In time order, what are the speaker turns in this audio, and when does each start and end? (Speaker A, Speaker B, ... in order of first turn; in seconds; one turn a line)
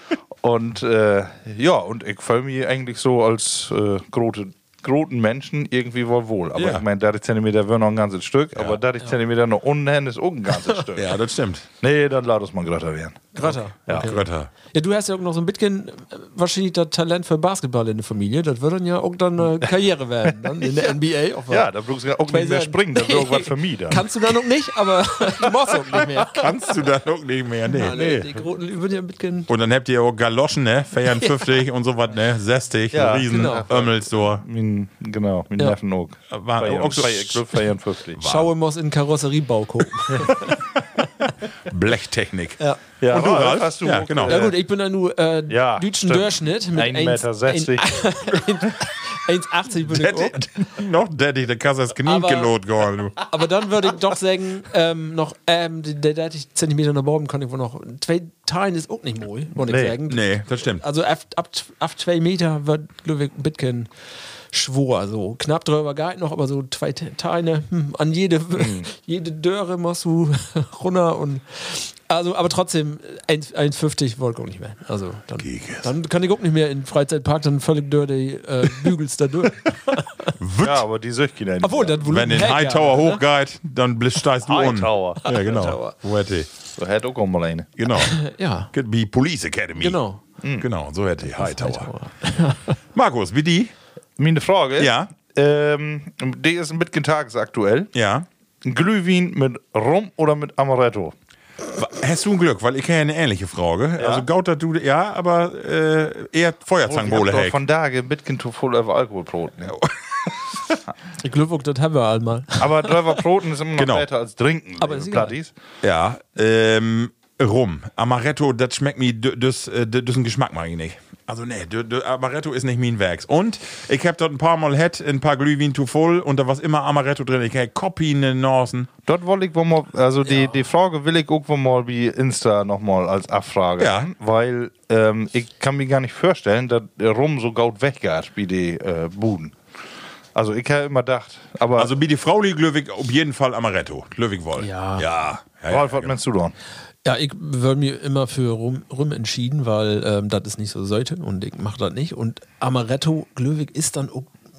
Speaker A: 0.4-11.2
Speaker B: 6.5-6.8
Speaker B: 8.5-8.8
Speaker B: 10.9-11.7
Speaker A: 11.8-14.1
Speaker C: 13.3-21.7
Speaker B: 13.9-14.5
Speaker A: 21.5-24.1
Speaker C: 22.3-26.5
Speaker B: 26.3-28.2
Speaker C: 27.7-29.5
Speaker A: 27.9-28.2
Speaker B: 29.5-34.4
Speaker C: 31.1-31.5
Speaker A: 32.9-38.2
Speaker C: 33.3-33.6
Speaker B: 36.3-37.5
Speaker B: 38.2-38.5
Speaker C: 38.2-40.6
Speaker B: 41.7-44.4
Speaker A: 43.0-44.6
Speaker C: 44.2-50.4
Speaker A: 45.5-47.9
Speaker B: 49.8-53.2
Speaker C: 52.0-52.5
Speaker C: 53.3-63.9
Speaker A: 59.6-59.9
Speaker B: 60.0-60.8
Speaker C: 64.5-80.3
Speaker A: 68.6-68.8
Speaker B: 75.4-75.9
Speaker B: 80.4-80.8
Speaker A: 80.6-82.0
Speaker C: 81.6-83.2
Speaker B: 82.0-86.5
Speaker A: 84.4-85.2
Speaker C: 85.2-86.0
Speaker A: 86.8-87.7
Speaker B: 87.8-90.0
Speaker C: 88.0-88.7
Speaker C: 89.8-90.2
Speaker A: 90.4-90.7
Speaker B: 90.6-91.9
Speaker C: 91.4-92.8
Speaker B: 92.9-93.7
Speaker A: 94.2-97.9
Speaker B: 94.8-95.1
Speaker B: 97.9-98.2
Speaker A: 98.6-101.1
Speaker B: 101.7-107.6
Speaker A: 104.0-104.3
Speaker A: 106.8-109.8
Speaker B: 110.5-110.8
Speaker C: 111.2-112.9
Speaker A: 112.6-115.5
Speaker B: 113.8-114.0
Speaker C: 114.8-115.3
Speaker B: 115.8-128.9
Speaker A: 129.1-139.6
Speaker C: 130.2-130.6
Speaker B: 133.8-134.1
Speaker A: 140.3-141.9
Speaker B: 141.8-146.1
Speaker C: 144.6-145.0
Speaker A: 145.7-146.5
Speaker C: 147.0-154.3